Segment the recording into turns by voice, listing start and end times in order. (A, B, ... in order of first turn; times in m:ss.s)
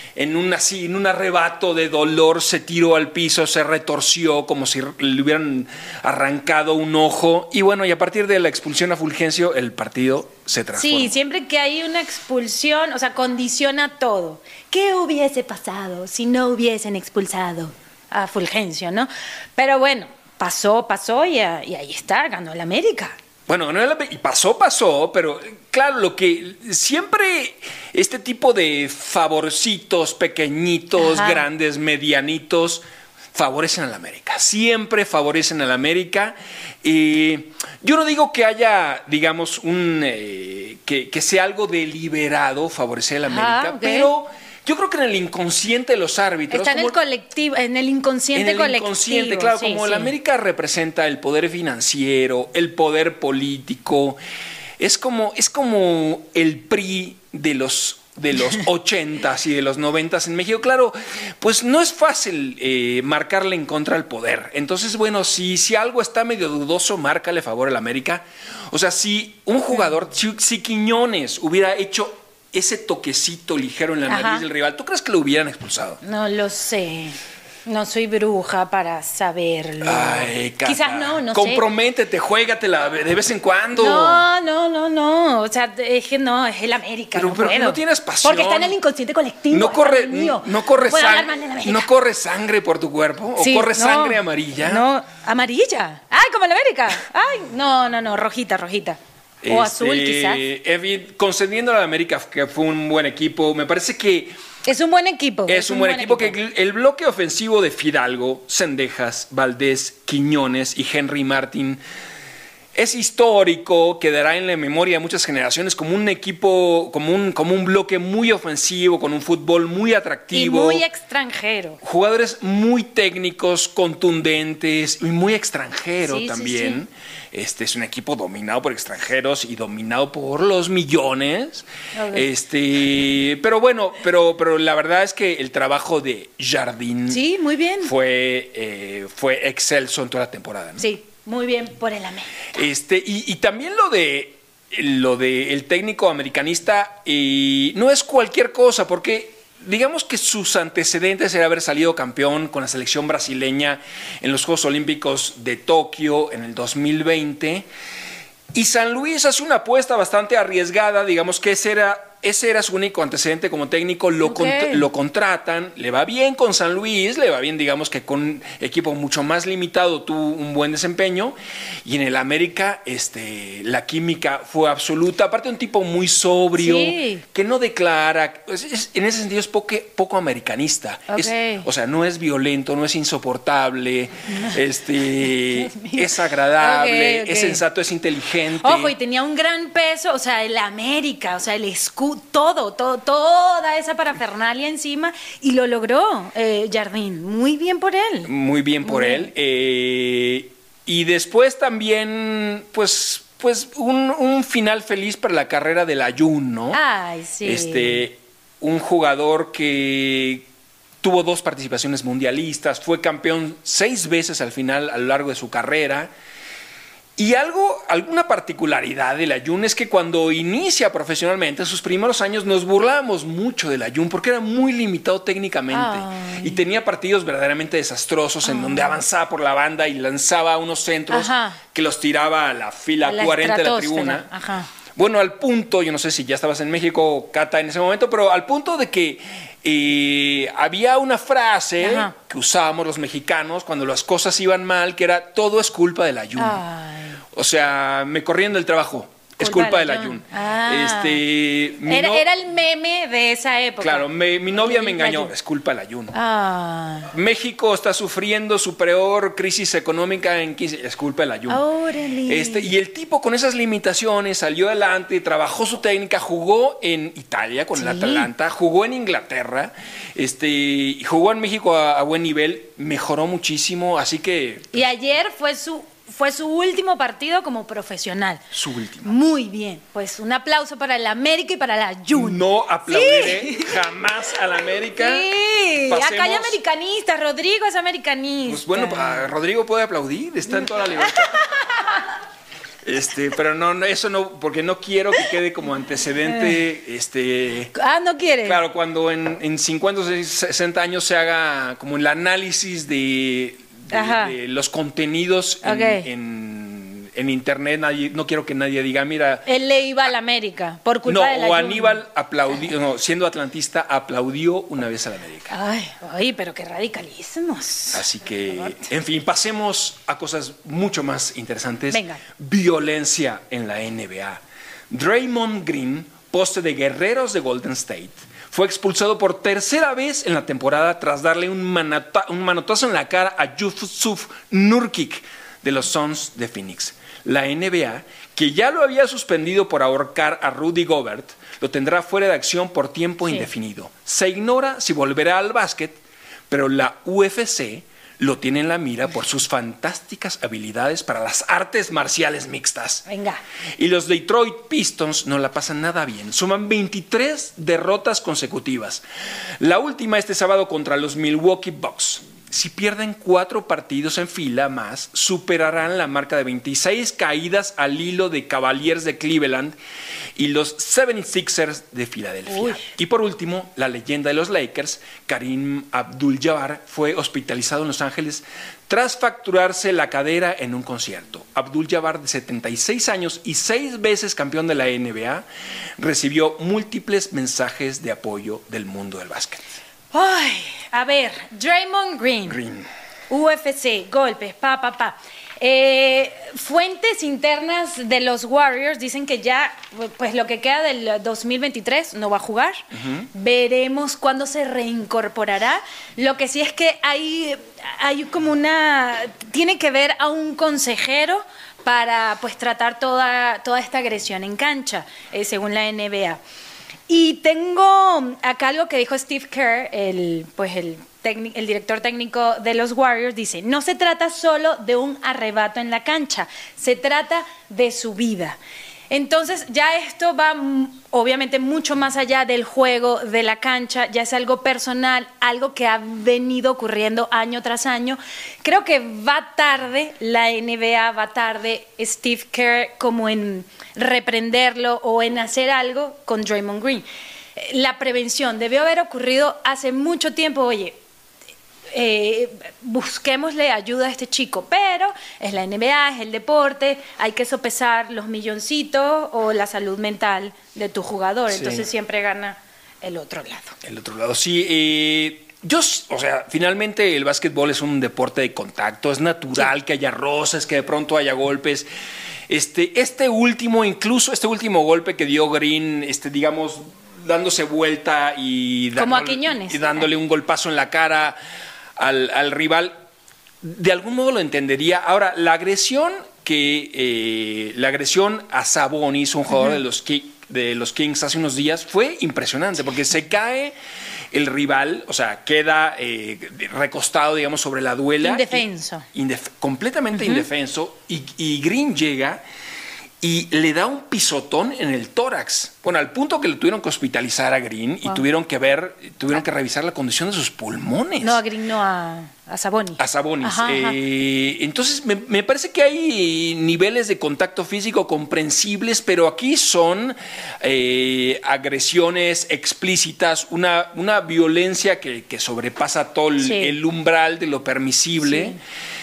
0:00.2-0:11.2 A
0:10.8-0:23.2 B
0:23.5-0:32.8 A
0:31.0-0:31.4 B
0:33.3-0:47.0 A
0:43.3-0:44.1 B
0:46.5-0:50.1 B
0:48.3-0:54.2 A
0:54.8-1:16.0 A
1:14.1-1:14.4 B
1:16.0-1:21.6 B
1:19.8-1:24.3 A
1:23.8-1:31.9 B
1:27.2-1:28.8 A
1:29.5-1:34.8 A
1:33.4-1:40.4 B
1:39.4-1:44.4 A
1:44.6-1:46.4 B
1:45.5-1:51.8 A
1:52.8-2:00.8 A
2:00.3-2:01.8 B
2:01.8-2:17.2 A
2:06.0-2:06.8 B
2:11.9-2:12.3 B
2:17.1-2:17.9 B
2:17.8-2:20.8 A
2:20.8-2:22.3 B
2:22.5-2:37.7 A
2:38.5-3:08.9 A
2:44.2-2:44.9 B
2:56.6-2:57.2 B
3:01.1-3:01.7 B
3:05.4-3:07.6 B
3:08.6-3:18.3 B
3:18.2-3:26.8 A
3:18.8-3:19.3 B
3:26.7-3:28.0 B
3:27.4-3:30.5 A
3:31.0-3:36.1 A
3:37.2-3:54.3 A
3:45.7-3:46.6 B
3:48.4-3:49.0 B
3:51.1-3:51.6 B
3:53.0-3:54.7 B
3:55.0-4:06.6 A
4:01.8-4:02.1 B
4:06.4-4:07.2 B
4:07.3-4:12.2 A
4:09.4-4:11.2 B
4:11.8-4:15.3 B
4:13.8-4:16.2 A
4:16.1-4:17.1 B
4:17.1-4:21.6 A
4:21.5-4:22.7 B
4:22.3-4:34.8 A
4:27.7-4:28.3 B
4:34.7-4:38.5 B
4:38.5-4:39.1 A
4:39.0-4:43.9 B
4:42.1-4:45.3 A
4:45.0-4:49.2 B
4:45.9-4:46.6 A
4:48.5-4:51.4 A
4:50.6-4:52.0 B
4:52.8-4:57.7 A
4:56.3-4:56.6 B
4:57.8-4:58.6 B
4:58.4-5:09.5 A
5:03.9-5:04.4 B
5:05.6-5:06.1 B
5:09.5-5:12.0 B
5:11.0-5:15.6 A
5:15.5-5:18.0 B
5:17.9-5:53.1 A
5:21.9-5:22.2 B
5:53.1-5:53.4 B
5:53.8-5:59.0 A
5:59.6-6:09.8 A
6:10.4-6:25.4 A
6:12.5-6:12.9 B
6:26.0-6:29.6 A
6:30.1-6:32.6 B
6:32.5-6:32.9 A
6:33.3-6:56.4 B
6:43.0-6:43.3 A
6:57.1-7:08.6 B
7:09.1-7:27.0 B
7:27.6-7:31.0 B
7:31.9-7:43.8 B
7:41.5-7:41.9 A
7:43.8-7:51.9 A
7:52.5-8:01.4 A
7:59.0-8:00.1 B
8:02.0-8:02.9 A
8:03.6-8:13.8 A
8:14.3-8:22.4 A
8:18.2-8:19.1 B
8:20.2-8:20.5 B
8:23.2-8:31.4 A
8:31.2-8:34.0 B
8:33.0-8:48.6 A
8:46.4-8:46.8 B
8:48.2-8:48.6 B